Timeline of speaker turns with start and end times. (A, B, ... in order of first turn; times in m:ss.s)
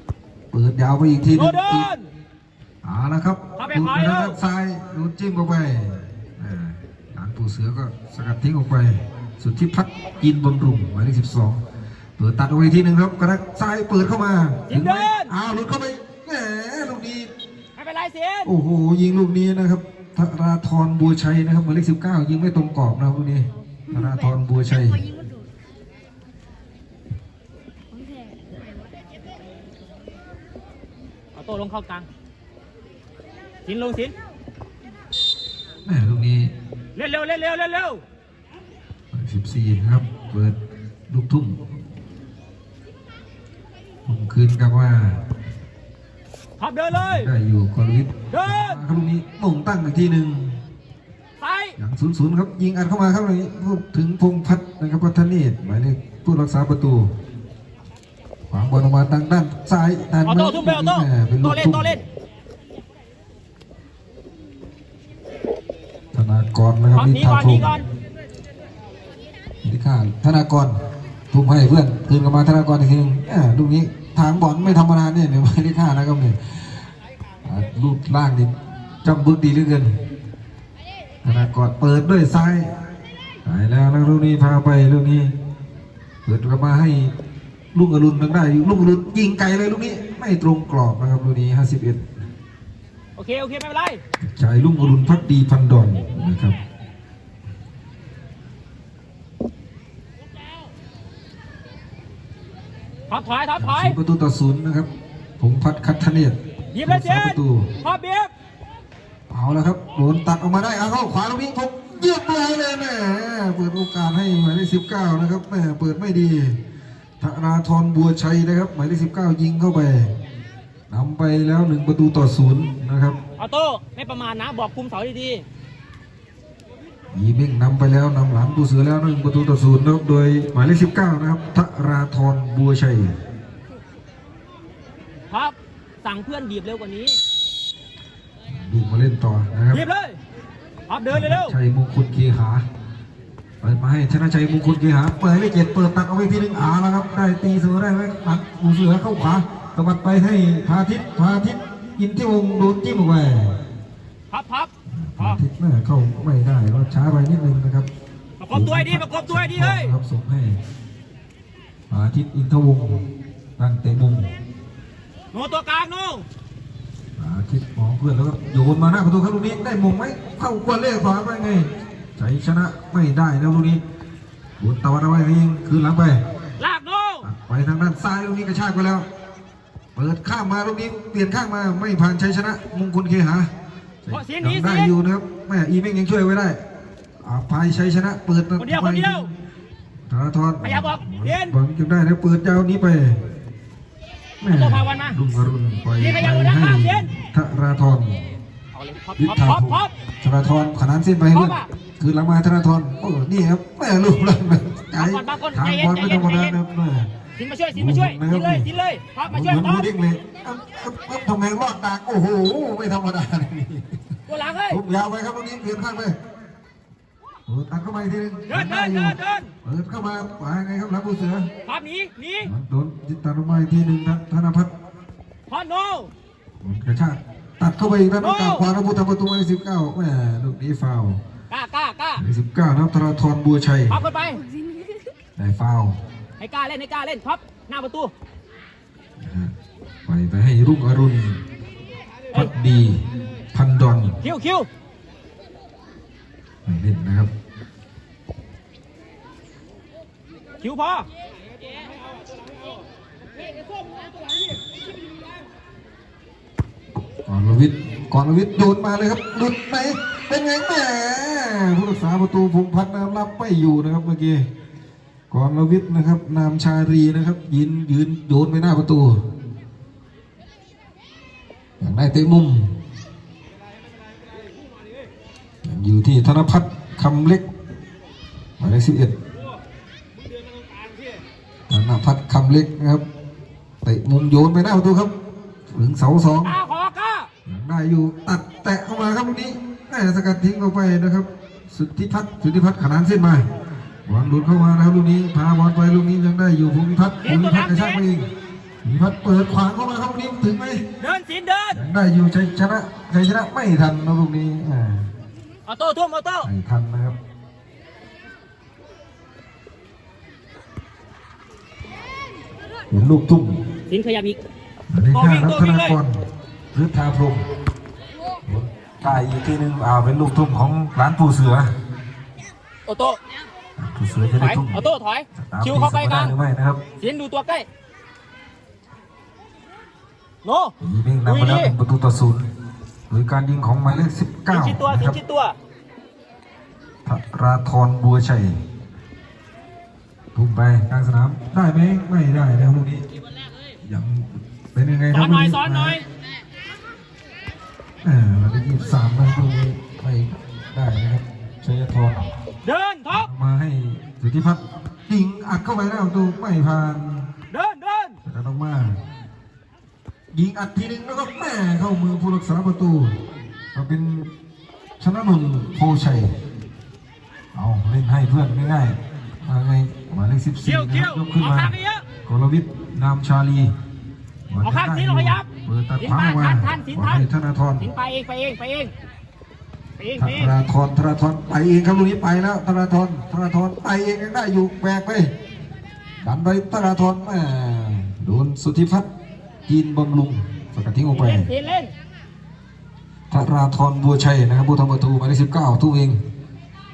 0:00.5-0:01.9 A
0:01.3-0:02.1 B
0:02.8-0:11.6 A
0:03.6-0:04.4 B
0:12.2-0:17.3 A
0:14.7-0:15.3 B
0:17.8-0:18.5 B
0:18.4-0:25.0 A
0:23.8-0:25.4 C
0:27.9-0:28.6 C
0:31.4-0:32.0 B
0:33.6-0:34.1 B
0:35.8-0:36.5 A
0:36.9-0:38.0 B
0:39.1-0:40.6 A
0:41.1-0:41.6 A
0:44.0-0:45.2 A
0:46.6-0:47.3 B
0:46.9-0:50.6 A
0:48.3-0:48.8 B
0:51.4-0:51.7 B
0:51.8-0:57.1 A
0:58.5-1:02.0 A
1:00.2-1:02.0 B
1:06.1-1:07.8 A
1:07.0-1:07.8 B
1:09.6-1:10.8 A
1:11.3-1:16.9 A
1:17.4-1:20.0 A
1:21.2-1:22.7 A
1:23.4-1:25.3 A
1:26.2-1:27.1 A
1:27.7-1:32.1 A
1:33.2-1:34.0 B
1:34.2-1:36.6 A
1:43.1-1:44.0 B
1:43.6-1:47.7 A
1:46.7-1:48.3 B
1:49.3-1:56.6 A
1:57.2-2:00.1 A
2:00.9-2:03.2 A
2:03.4-2:05.4 B
2:07.1-2:13.1 A
2:15.3-2:17.2 B
2:18.5-2:19.8 A
2:19.7-2:20.2 B
2:20.9-2:21.5 B
2:21.1-2:22.6 A
2:23.6-2:33.6 A
2:34.3-2:35.4 B
2:34.9-2:37.9 A
2:38.4-2:39.9 B
2:38.5-2:40.6 A
2:41.9-2:43.0 A
2:43.6-2:44.3 A
2:45.3-2:46.2 B
2:47.2-2:53.8 A
2:54.6-2:56.2 A
2:56.6-2:57.2 B
2:57.2-2:59.0 A
2:59.9-3:03.5 A
3:04.0-3:06.6 A
3:04.1-3:04.9 B
3:07.2-3:09.3 A
3:08.6-3:09.3 B
3:10.1-3:13.2 A
3:10.6-3:11.6 B
3:14.4-3:18.3 A
3:14.5-3:15.2 B
3:16.0-3:17.0 B
3:18.7-3:19.9 B
3:19.2-3:27.1 A
3:21.3-3:21.7 B
3:25.0-3:26.5 B
3:27.4-3:29.9 B
3:27.7-3:28.7 A
3:29.2-3:34.0 A
3:34.3-3:34.8 B
3:34.7-3:36.2 A
3:37.5-3:41.5 A
3:38.5-3:39.5 B
3:41.6-3:42.5 B
3:42.4-3:44.7 A
3:45.5-3:46.1 B
3:46.6-3:51.2 A
3:48.2-3:48.7 B
3:51.5-3:52.2 B
3:52.2-3:54.0 A
3:53.9-3:54.4 B
3:54.3-3:55.1 C
3:55.4-3:56.0 A
3:56.4-3:58.1 B
3:59.2-3:59.5 A
4:00.1-4:01.4 A
4:02.3-4:03.0 A
4:03.5-4:04.2 A
4:04.2-4:04.7 B
4:06.6-4:07.3 A
4:10.6-4:11.1 B
4:17.2-4:24.5 A
4:25.3-4:29.2 A
4:31.8-4:32.7 A
4:35.6-4:37.4 A
4:38.6-4:39.2 A
4:41.7-4:43.0 A
4:43.8-4:45.1 A
4:45.7-4:46.5 A
4:46.4-4:47.3 B
4:47.4-4:53.5 A
4:54.0-4:58.3 A
4:57.2-4:58.0 B
4:58.8-5:00.8 A
5:01.0-5:01.8 B
5:01.7-5:05.1 A
5:05.7-5:06.5 B
5:06.4-5:07.2 A
5:12.9-5:13.6 A
5:13.9-5:14.4 B
5:14.9-5:16.2 A
5:15.1-5:16.0 B
5:16.7-5:17.4 A
5:18.4-5:21.7 A
5:22.9-5:23.2 B
5:23.8-5:26.8 A
5:24.3-5:26.3 B
5:27.0-5:27.6 B
5:30.4-5:30.7 B
5:30.8-5:32.5 A
5:31.2-5:31.7 B
5:33.1-5:35.2 A
5:34.5-5:35.5 B
5:37.0-5:38.6 A
5:40.3-5:43.0 A
5:43.8-5:46.0 A
5:45.1-5:46.0 B
5:48.0-5:52.3 A
5:52.6-5:53.3 B
5:53.1-5:57.3 A
5:57.5-5:58.2 B
5:58.2-5:59.0 A
6:00.3-6:03.2 A
6:03.7-6:04.3 A
6:05.0-6:06.3 A
6:07.5-6:11.7 A
6:10.6-6:12.0 B
6:12.2-6:13.7 A
6:14.5-6:17.9 A
6:14.6-6:15.4 B
6:16.0-6:17.2 B
6:17.8-6:18.9 B
6:20.0-6:20.5 B
6:20.2-6:25.3 A
6:26.2-6:29.1 A
6:29.7-6:31.5 A
6:31.1-6:31.9 B
6:33.3-6:36.2 A